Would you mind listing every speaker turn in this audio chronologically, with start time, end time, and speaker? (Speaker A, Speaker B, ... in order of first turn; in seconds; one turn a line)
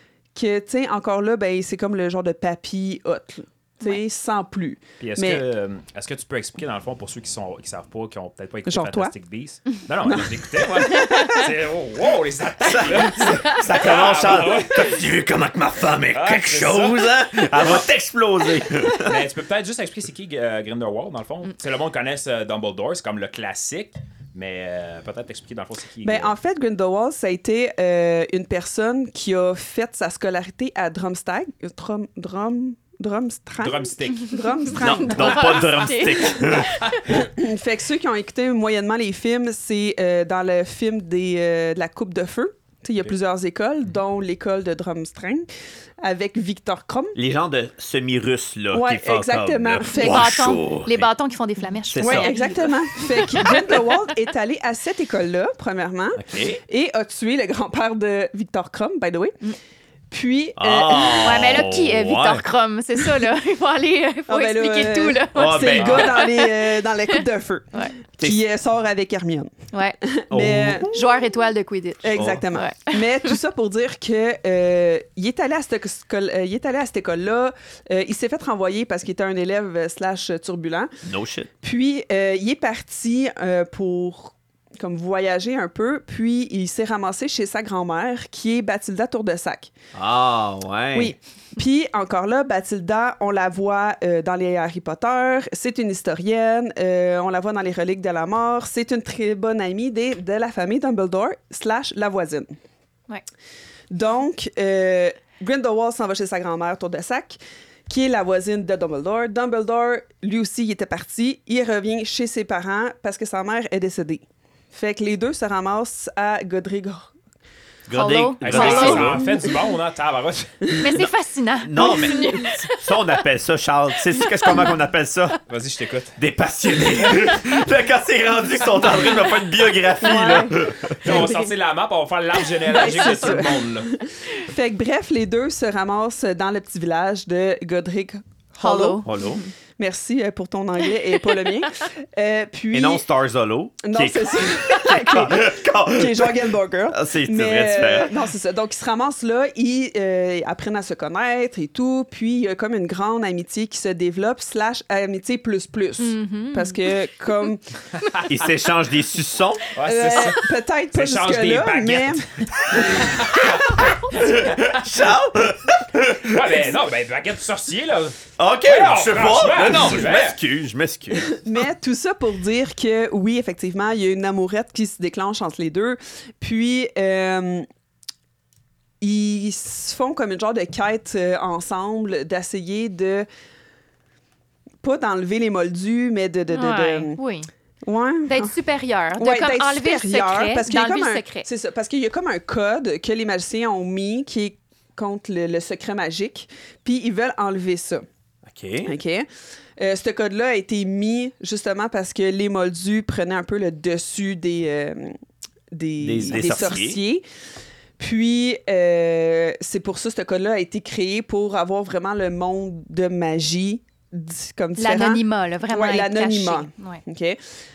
Speaker A: 0.3-5.4
Speaker B: 5.0-15.0
Speaker A: 8.7-9.1
Speaker A: 10.0-11.2
Speaker C: 12.6-19.3
Speaker B: 16.1-17.8
Speaker B: 19.0-26.3
Speaker A: 26.0-35.8
Speaker B: 33.6-34.8
Speaker C: 34.8-36.9
Speaker D: 35.0-37.0
Speaker A: 37.0-45.5
Speaker A: 46.0-47.1
Speaker C: 47.1-51.1
Speaker A: 48.7-50.3
Speaker D: 49.9-53.8
Speaker C: 51.9-52.3
Speaker A: 52.0-59.4
Speaker C: 56.1-56.6
Speaker A: 60.1-61.6
Speaker C: 60.6-62.5
Speaker D: 61.1-67.2
Speaker A: 64.3-71.2
Speaker C: 65.3-66.2
Speaker D: 69.7-70.0
Speaker C: 70.3-70.9
Speaker D: 70.9-73.4
Speaker A: 72.0-80.9
Speaker C: 72.1-72.5
Speaker C: 81.0-81.5
Speaker A: 81.6-89.7
Speaker C: 89.9-91.1
Speaker A: 90.9-102.5
Speaker A: 103.9-117.1
Speaker C: 117.9-119.3
Speaker D: 117.9-119.3
Speaker B: 118.4-120.7
Speaker D: 120.7-122.9
Speaker C: 121.6-125.4
Speaker D: 124.2-124.7
Speaker B: 125.5-126.2
Speaker C: 126.2-131.3
Speaker A: 130.0-131.5
Speaker B: 131.0-133.9
Speaker A: 132.6-139.1
Speaker D: 138.6-139.5
Speaker C: 139.0-139.4
Speaker A: 139.8-143.0
Speaker C: 142.7-148.3
Speaker A: 143.8-157.6
Speaker D: 156.0-156.9
Speaker C: 158.2-159.7
Speaker B: 159.7-165.0
Speaker A: 159.8-163.2
Speaker C: 162.5-166.7
Speaker B: 166.2-170.4
Speaker C: 168.4-171.4
Speaker A: 171.2-177.7
Speaker A: 179.0-183.3
Speaker A: 184.8-187.2
Speaker D: 186.5-187.5
Speaker A: 187.8-188.5
Speaker D: 188.2-191.5
Speaker A: 189.2-198.1
Speaker C: 198.4-198.9
Speaker A: 198.8-205.2
Speaker A: 205.7-207.2
Speaker C: 206.0-207.0
Speaker A: 208.0-217.4
Speaker D: 214.8-217.0